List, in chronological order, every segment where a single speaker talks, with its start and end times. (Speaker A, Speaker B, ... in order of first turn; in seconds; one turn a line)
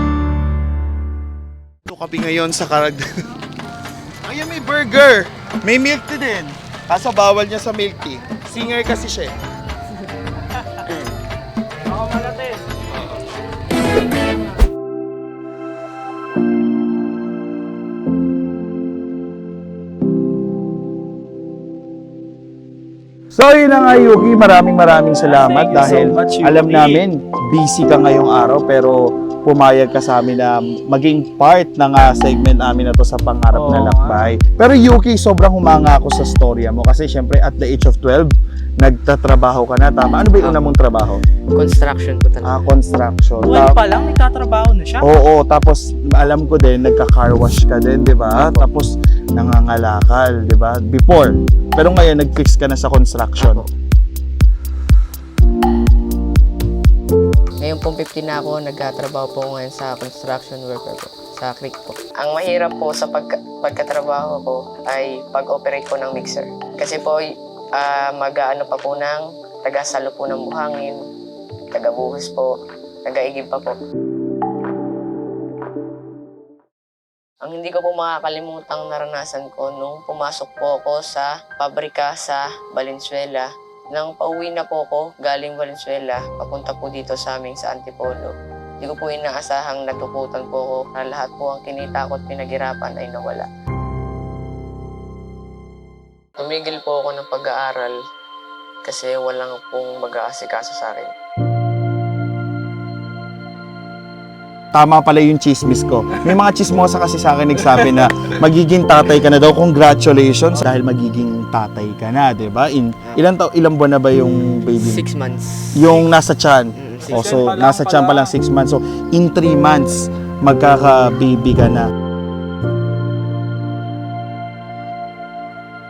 Speaker A: 1.9-3.1
Speaker A: 4.3-9.3
Speaker B: 11.9-12.7
Speaker A: 23.3-41.2
Speaker B: 25.2-27.0
Speaker B: 33.5-34.3
Speaker C: 40.4-40.6
Speaker C: 41.5-42.7
Speaker A: 42.4-43.8
Speaker B: 43.4-45.1
Speaker A: 45.0-53.6
Speaker C: 48.4-48.6
Speaker C: 53.4-53.7
Speaker C: 57.6-71.0
Speaker C: 71.7-73.8
Speaker C: 77.4-93.5
Speaker C: 96.4-98.0
Speaker C: 98.8-101.1
Speaker A: 104.7-115.0
Speaker C: 114.8-116.1
Speaker A: 115.8-121.9
Speaker C: 116.8-117.3
Speaker B: 117.0-118.3